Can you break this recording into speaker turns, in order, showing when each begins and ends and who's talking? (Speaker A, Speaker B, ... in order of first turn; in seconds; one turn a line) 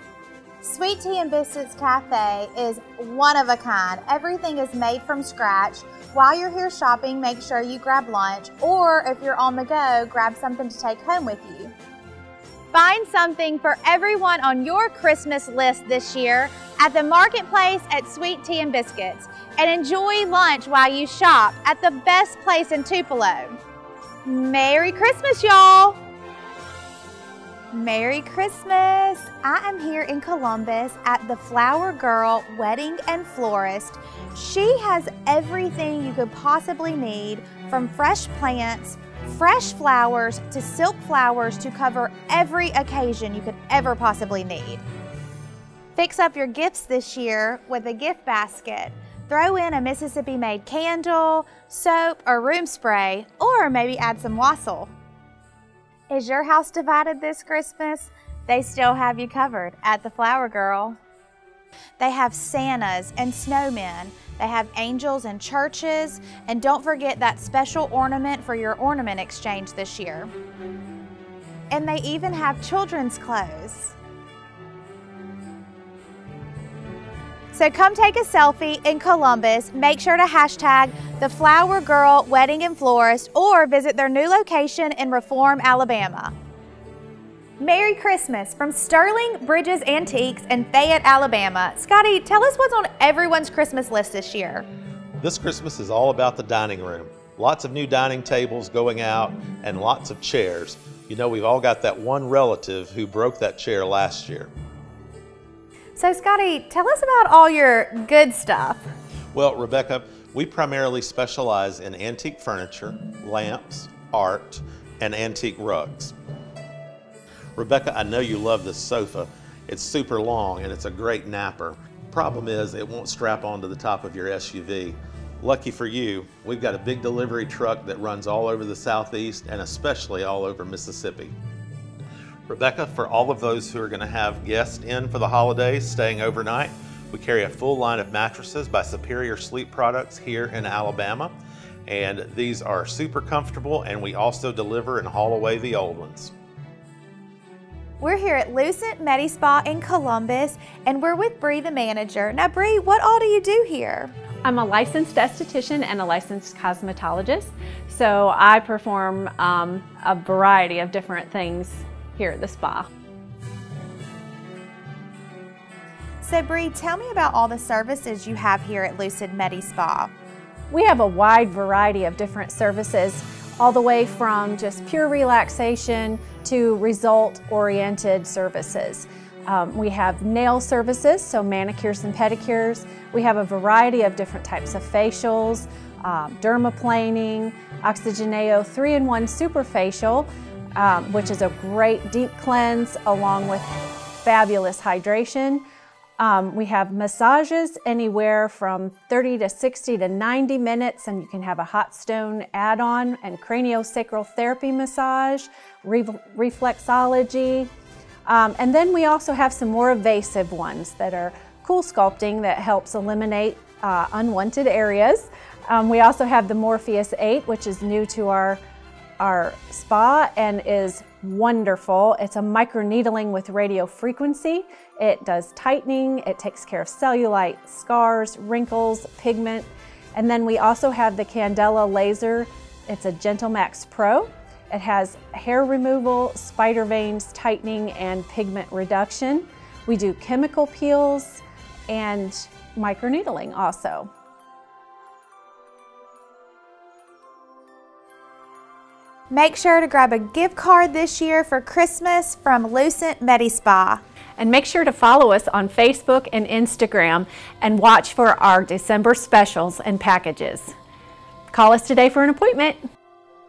Speaker A: 0.6-11.7
Speaker A: 12.7-23.6
Speaker A: 24.2-26.0
Speaker A: 27.7-44.8
Speaker A: 46.0-54.9
Speaker A: 56.1-61.0
Speaker A: 62.0-70.3
Speaker A: 71.7-74.0
Speaker A: 77.5-86.3
Speaker A: 87.6-94.7
Speaker B: 95.2-104.5
Speaker A: 106.0-108.9
Speaker B: 109.3-116.1
Speaker B: 117.6-131.3
Speaker B: 132.5-141.3
Speaker B: 141.9-146.3
Speaker A: 148.0-154.2
Speaker C: 154.4-162.9
Speaker A: 166.2-170.1
Speaker C: 170.7-195.6
Speaker C: 196.2-207.7
Speaker C: 208.3-218.6
Speaker C: 219.2-244.1
Speaker A: 249.3-254.0
Speaker C: 254.4-260.7
Speaker C: 261.5-262.8